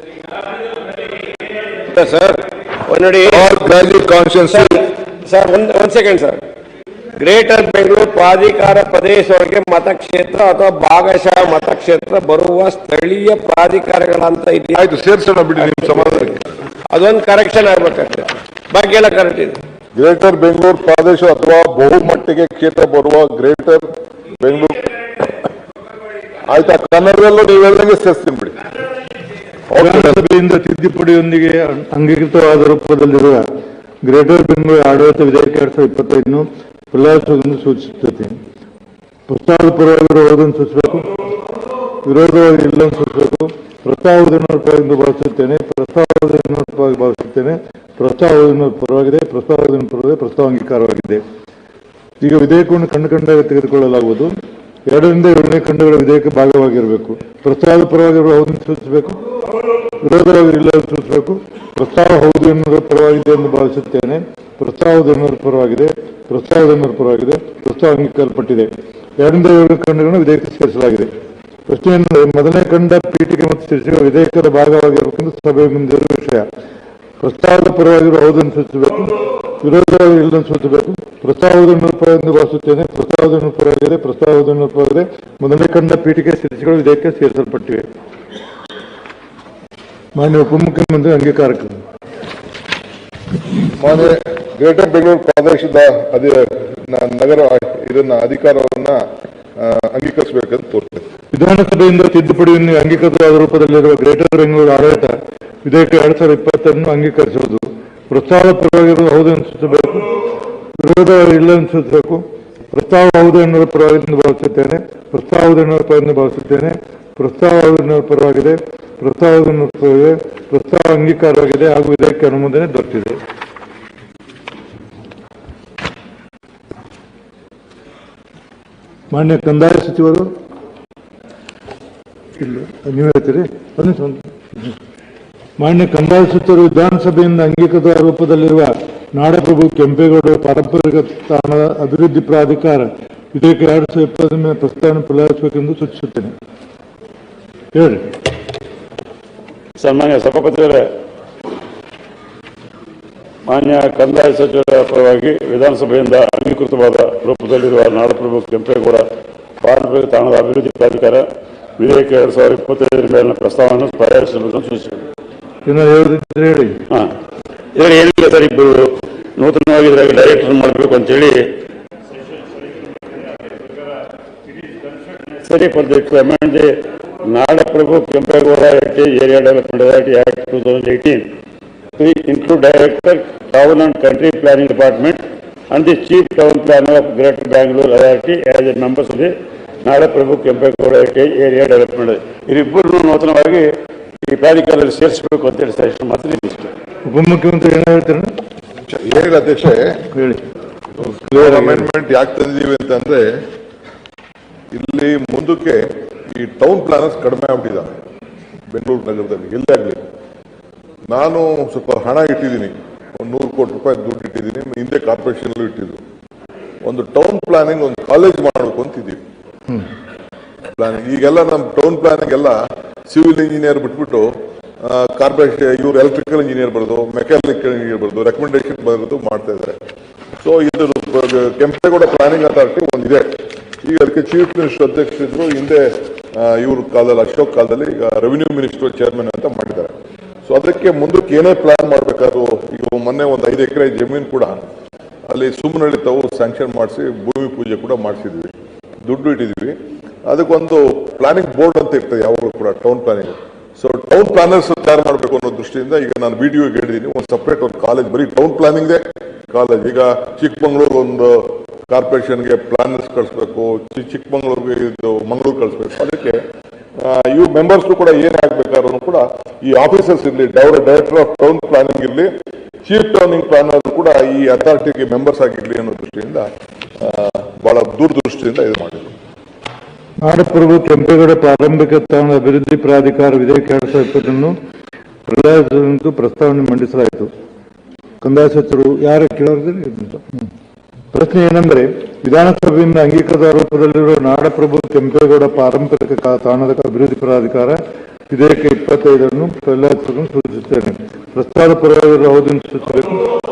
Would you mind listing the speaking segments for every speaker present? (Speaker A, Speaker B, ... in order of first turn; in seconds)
Speaker A: 1.9-3.6, 4.5-6.4, 7.2-14.8, 16.9-19.6
Speaker B: 3.3-4.8, 14.7-16.6, 19.9-25.2, 26.5-28.5, 29.7-30.2, 93.8-99.0, 99.6-101.0, 198.9-199.8, 201.3-203.3, 204.7-207.9, 208.7-210.0, 211.1-216.0, 216.8-219.2, 220.7-222.6, 223.1-224.3, 224.8-229.7, 230.4-233.3, 233.8-239.9, 240.4-244.6, 245.3-248.5, 249.1-249.7, 250.3-266.4, 267.0-272.3, 272.8-276.5, 277.0-279.1
Speaker C: 29.8-33.4, 34.0-38.4, 39.3-41.1, 42.0-51.2, 52.2-54.3, 54.9-59.2, 60.0-71.1, 71.7-76.5, 77.2-87.8, 90.2-91.8, 101.3-110.0, 110.8-123.2, 129.1-130.2, 132.4-134.7, 135.6-146.3, 147.7-148.0, 165.7-166.7, 197.1-198.3, 200.1-200.4, 201.0-201.9, 280.2-284.5, 285.3-287.3, 288.2-290.4, 291.1-297.8, 298.3-303.2
Speaker D: 149.8-150.8, 153.5-159.0, 159.6-161.2, 161.8-165.0, 167.8-171.4, 175.4-176.7, 177.3-181.3, 182.0-189.3, 189.8-193.7, 194.2-196.7